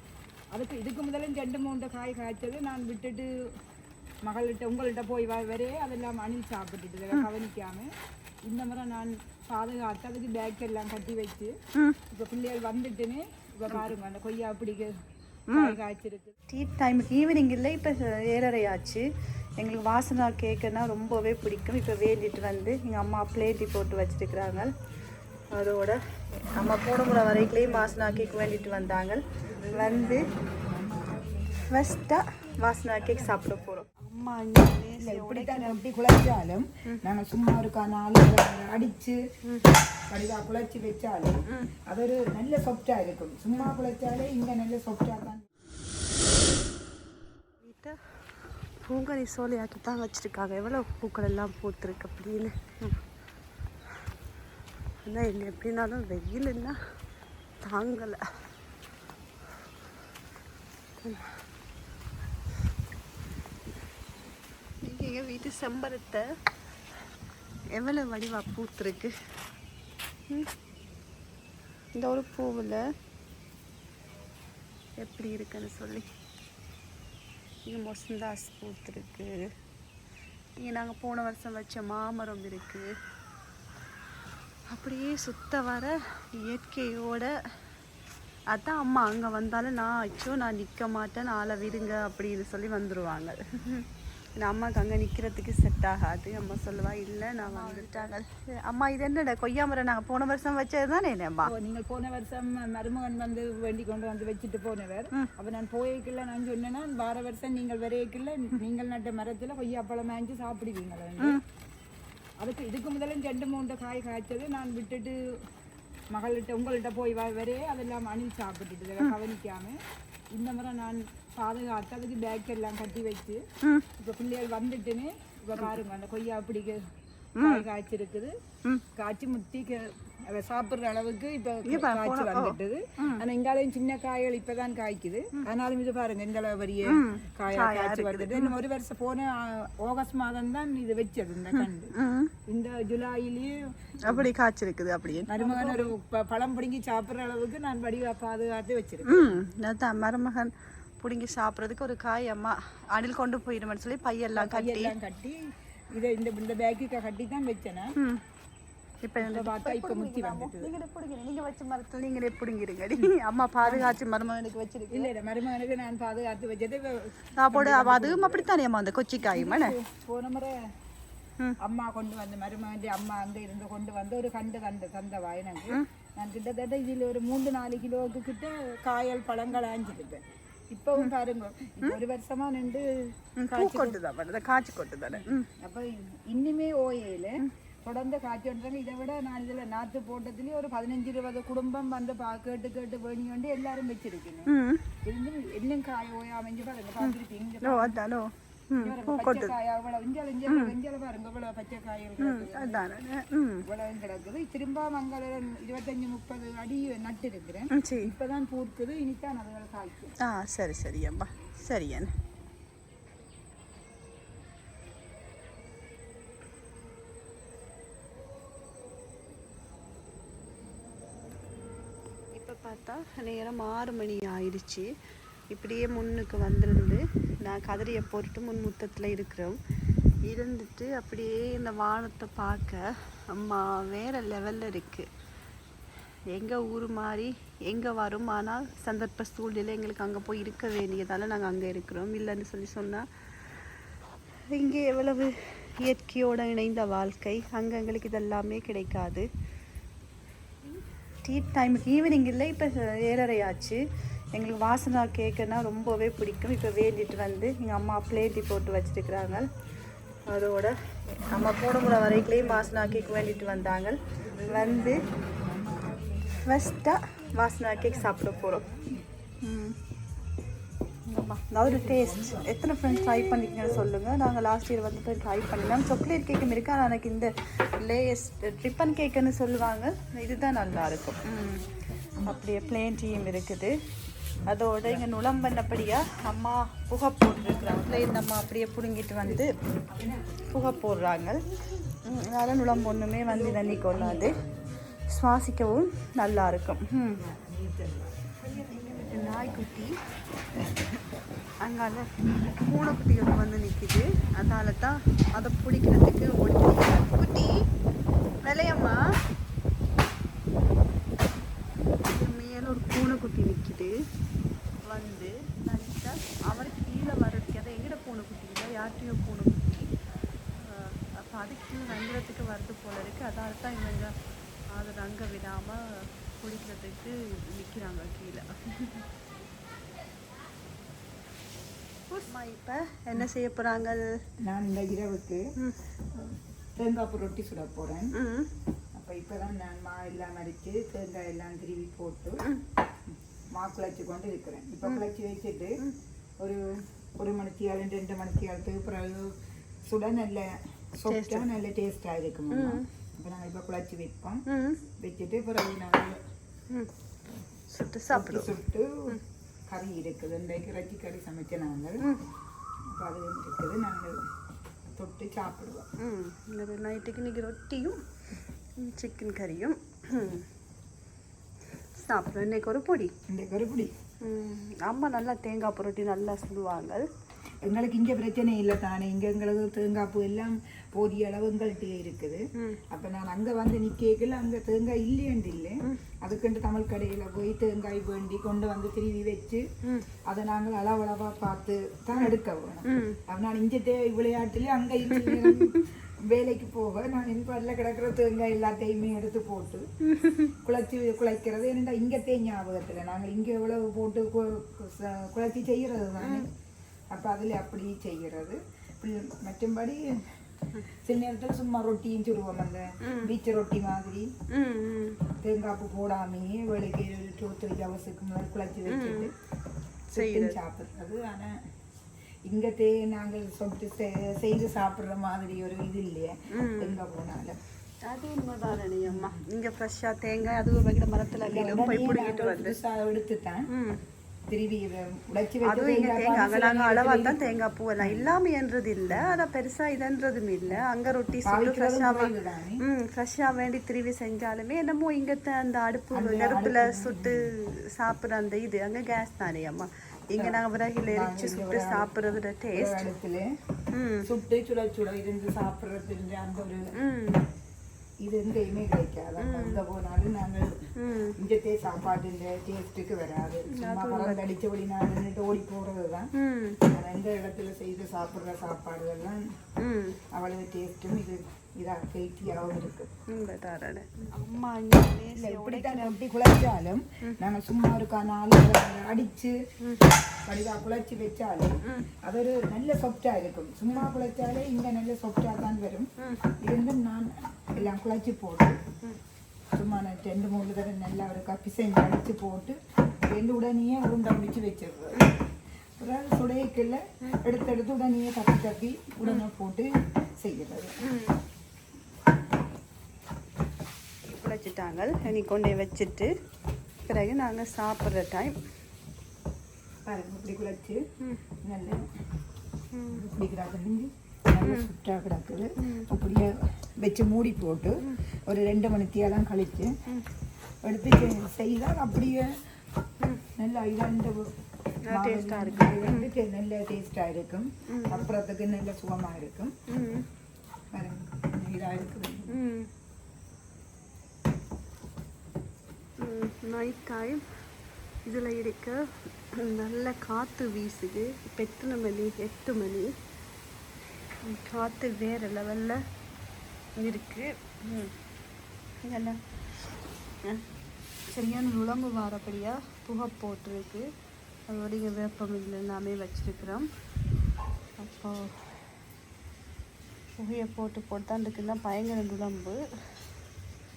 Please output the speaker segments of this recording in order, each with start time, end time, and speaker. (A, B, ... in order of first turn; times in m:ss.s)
0:00.5-0:03.3 A
0:04.2-0:07.9 A
0:08.5-0:11.5 A
0:12.1-0:14.9 A
0:15.5-0:15.8 B
0:15.5-0:16.4 A
0:16.5-0:19.1 B
0:19.6-0:24.7 B
0:25.5-0:26.0 B
0:26.5-0:30.2 B
0:27.4-0:28.9 A
0:29.4-0:32.0 A
0:31.7-0:35.8 B
0:33.0-0:33.7 A
0:35.0-0:39.2 A
0:39.4-0:39.7 B
0:40.1-0:45.4 A
0:41.5-0:41.7 B
0:47.6-0:53.0 B
0:55.0-0:56.8 B
0:57.6-0:58.2 B
1:01.0-1:01.4 B
1:04.8-1:06.2 B
1:07.7-1:09.1 B
1:12.0-1:12.8 B
1:15.0-1:16.1 B
1:17.6-1:19.5 B
1:20.6-1:22.9 B
1:24.7-1:27.3 B
1:28.5-1:41.5 B
1:37.4-1:38.1 A
1:41.4-1:51.4 A
1:52.4-1:55.2 A
1:56.1-1:59.8 A
2:00.3-2:03.4 A
2:03.6-2:03.9 B
2:04.0-2:06.8 A
2:07.4-2:07.6 B
2:07.4-2:08.3 A
2:08.9-2:21.9 A
2:11.6-2:13.2 B
2:16.9-2:18.6 B
2:21.5-2:22.3 B
2:22.5-2:24.3 A
2:24.0-2:25.9 B
2:25.3-2:29.4 A
2:29.0-2:34.9 B
2:34.3-2:35.4 A
2:35.9-2:37.9 A
2:39.0-2:45.1 B
2:39.2-2:40.7 A
2:43.6-2:44.0 A
2:44.9-2:48.5 A
2:47.4-2:49.8 B
2:49.2-2:50.5 A
2:51.6-3:04.0 A
3:03.4-3:05.5 B
3:05.1-3:14.5 A
3:14.5-3:14.8 B
3:15.0-3:18.0 A
3:17.0-3:19.5 B
3:18.8-3:22.8 A
3:20.5-3:20.7 B
3:22.2-3:23.6 B
3:23.6-3:30.1 A
3:27.7-3:28.1 B
3:30.2-3:32.1 B
3:42.4-3:44.9 B
3:45.5-3:49.6 B
3:50.2-3:55.1 B
3:56.3-4:03.7 B
4:04.5-4:09.3 B
4:11.2-4:13.8 B
4:14.4-4:19.5 B
4:20.3-4:25.0 B
4:22.2-4:26.7 A
4:26.4-4:28.6 B
4:27.7-4:29.0 A
4:29.4-4:29.8 B
4:31.1-4:43.7 B
4:31.6-4:32.5 A
4:44.5-4:49.5 B
4:47.4-4:48.2 A
4:49.2-4:50.4 A
4:50.4-4:51.4 B
4:52.0-4:54.4 B
4:53.2-4:54.6 A
4:55.1-4:57.2 B
4:57.1-4:59.6 A
4:59.0-4:59.9 B
5:01.6-5:07.5 B
5:08.4-5:09.0 B
5:12.0-5:13.9 B
5:14.9-5:19.9 B
5:20.5-5:24.2 B
5:24.7-5:29.1 B
5:32.1-5:34.0 B
5:34.4-5:35.4 A
5:36.1-5:38.1 A
5:38.1-5:38.5 B
5:38.9-5:42.4 A
5:43.5-5:45.7 A
5:47.2-5:49.3 A
5:49.8-5:54.4 A
5:51.1-5:51.5 B
5:52.5-5:52.8 B
5:54.5-5:54.8 B
5:55.0-5:56.2 A
5:57.7-5:58.5 B
5:58.1-5:59.2 A
5:59.7-6:02.0 A
6:02.9-6:04.2 A
6:05.0-6:05.8 A
6:06.0-6:08.0 B
6:08.8-6:10.5 B
6:12.0-6:13.1 B
6:13.3-6:13.9 A
6:14.2-6:17.1 B
6:17.6-6:22.4 A
6:22.9-6:29.6 A
6:30.3-6:39.8 A
6:32.8-6:33.2 B
6:35.1-6:35.8 B
6:40.0-6:40.5 B
6:40.6-6:46.5 A
6:46.2-6:46.5 B
6:47.1-6:50.0 A
6:51.0-6:54.3 A
6:53.0-6:53.3 B
6:54.5-6:55.2 B
6:55.4-6:59.3 A
6:58.9-6:59.3 B
7:00.1-7:00.6 B
7:00.1-7:01.5 A
7:02.5-7:07.6 A
7:06.5-7:07.0 B
7:08.1-7:12.8 B
7:09.0-7:09.4 A
7:11.4-7:13.7 A
7:13.7-7:14.0 B
7:14.5-7:18.4 A
7:15.6-7:33.1 B
7:19.1-7:19.4 A
7:21.4-7:22.8 A
7:26.1-7:27.5 A
7:30.4-7:32.1 A
7:32.7-7:33.4 A
7:33.9-7:34.3 B
7:34.2-7:36.8 A
7:37.0-7:37.4 B
7:38.2-7:40.7 A
7:39.4-7:39.8 B
7:41.0-7:41.3 B
7:41.4-7:46.3 A
7:43.7-7:44.4 B
7:46.4-7:46.8 B
7:46.9-7:49.4 A
7:49.8-7:50.2 B
7:50.3-7:53.1 A
7:53.3-7:56.2 B
7:55.3-7:59.5 A
8:00.4-8:01.7 A
8:02.2-8:06.1 A
8:06.2-8:06.5 B
8:06.6-8:08.8 A
8:09.7-8:12.8 A
8:13.3-8:15.3 A
8:16.0-8:19.9 A
8:20.4-8:21.0 A
8:21.0-8:21.4 B
8:24.2-8:26.3 B
8:27.0-8:28.6 B
8:30.0-8:31.0 A
8:31.6-8:32.0 A
8:32.9-8:33.2 B
8:33.1-8:39.9 A
8:34.6-8:34.9 B
8:35.8-8:36.3 B
8:40.8-8:42.5 A
8:43.5-8:44.5 A
8:45.1-8:46.3 B
8:45.1-8:49.7 A
8:47.9-8:48.3 B
8:49.9-8:50.3 B
8:50.9-8:52.6 A
8:52.5-8:52.9 B
8:56.2-8:57.4 B
8:58.2-8:59.0 B
8:59.6-9:03.1 B
9:04.4-9:06.0 B
9:07.0-9:08.1 B
9:09.0-9:09.4 B
9:11.3-9:14.1 B
9:14.7-9:16.9 B
9:18.0-9:18.8 B
9:20.4-9:22.8 B